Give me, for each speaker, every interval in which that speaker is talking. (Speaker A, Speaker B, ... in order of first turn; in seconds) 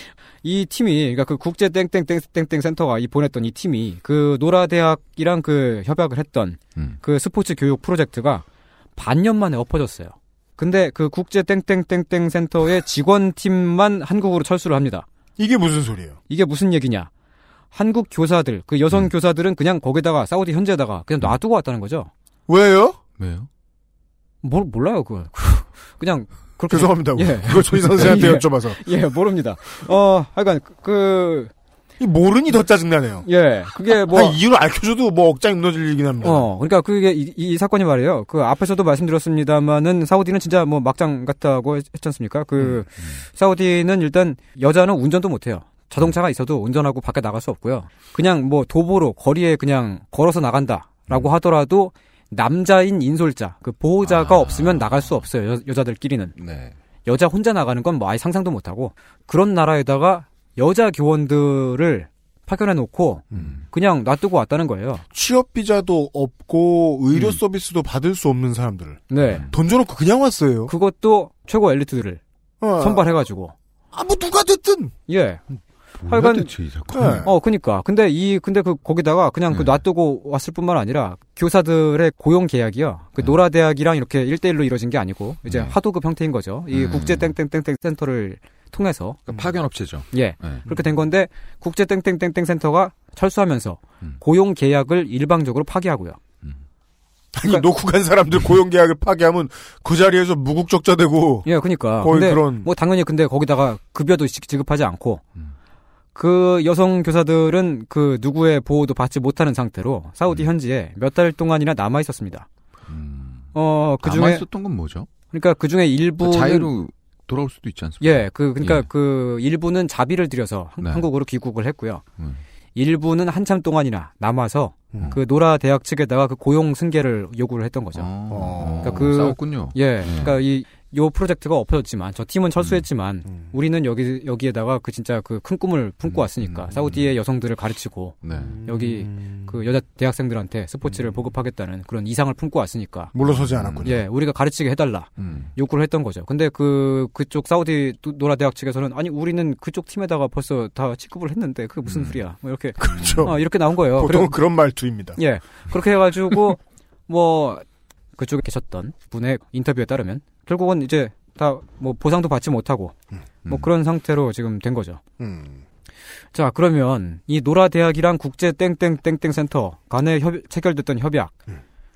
Speaker A: 0.4-8.4, 9.0-15.1, 16.3-17.1, 17.7-22.1, 24.4-31.5, 33.2-34.4, 36.2-56.4, 57.0-65.0, 69.1-69.5, 70.7-72.2, 72.8-73.5, 75.1-75.4, 76.1-76.5, 77.2-89.2, 90.1-96.2, 101.5-105.2, 106.2-112.5, 113.5-114.5, 115.3-116.7, 118.0-122.0, 122.8-128.1, 128.7-143.1, 143.8-154.4, 155.2-157.7, 158.2-162.9, 163.5-165.0, 166.3-171.4
Speaker B: 15.4-16.2, 22.5-23.0, 26.7-28.8, 32.0-33.3, 34.0-36.5, 63.3-63.6, 65.1-70.7, 72.6-73.1, 73.9-74.9, 76.9-77.3, 97.3-101.5, 102.0-102.7, 128.3-129.2, 138.4-139.5, 143.1-144.0, 152.8-155.2, 165.2-165.6
Speaker C: 23.2-23.5, 54.0-55.3, 56.4-56.8, 63.3-63.6, 69.2-69.6, 76.0-77.3, 79.5-79.8, 83.2-83.5, 85.5-85.8, 86.7-87.4, 89.3-90.7, 112.9-115.1, 116.2-118.9, 120.8-121.1, 128.0-130.4, 132.6-132.8, 136.1-137.2, 138.2-138.6, 143.2-144.0, 145.2-145.5, 151.8-152.2, 152.8-153.3, 163.4-163.7